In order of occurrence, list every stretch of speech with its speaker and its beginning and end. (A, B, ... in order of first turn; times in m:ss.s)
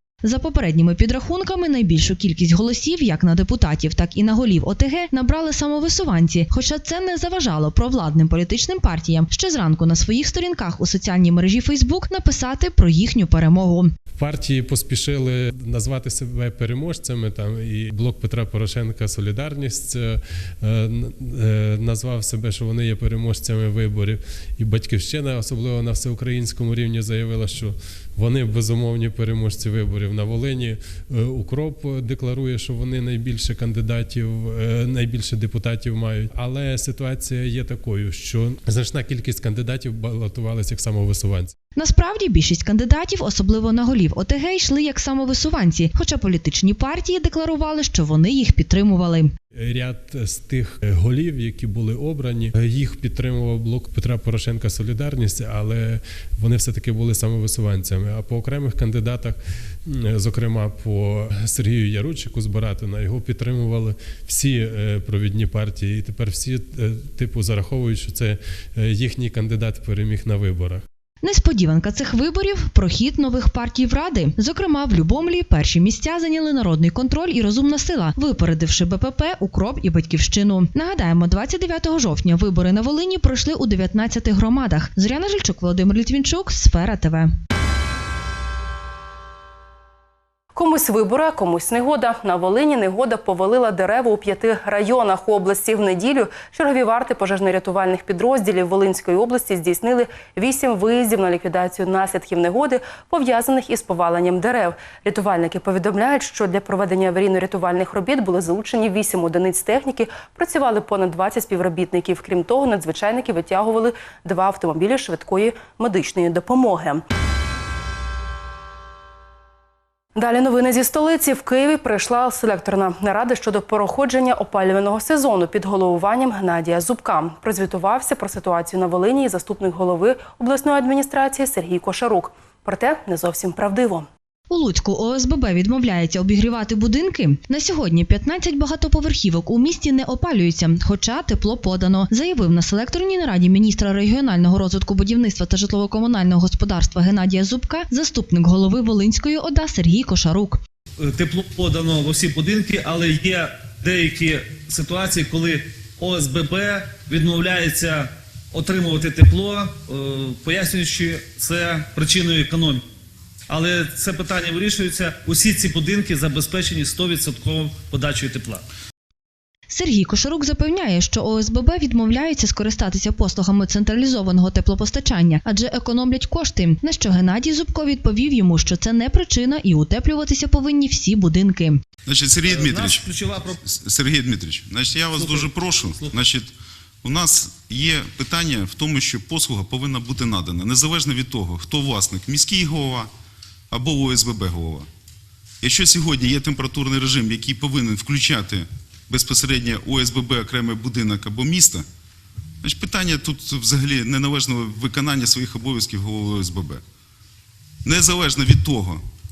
0:00.2-0:13.9 A
0:14.2-0:41.5 B
0:41.8-0:49.3 A
0:49.6-1:10.8 B
1:11.2-1:27.3 A
1:30.5-1:57.0 C
2:00.1-2:14.1 C
2:14.5-2:30.6 A
2:31.0-2:42.8 D
2:43.5-2:48.6 D
2:49.7-3:01.8 A
3:02.0-3:06.5 E
3:02.4-3:03.6 D
3:05.1-3:06.1 D
3:07.0-3:13.1 E
3:13.7-3:14.9 E
3:15.6-3:21.8 E
3:22.6-3:26.8 E
3:27.8-3:29.0 E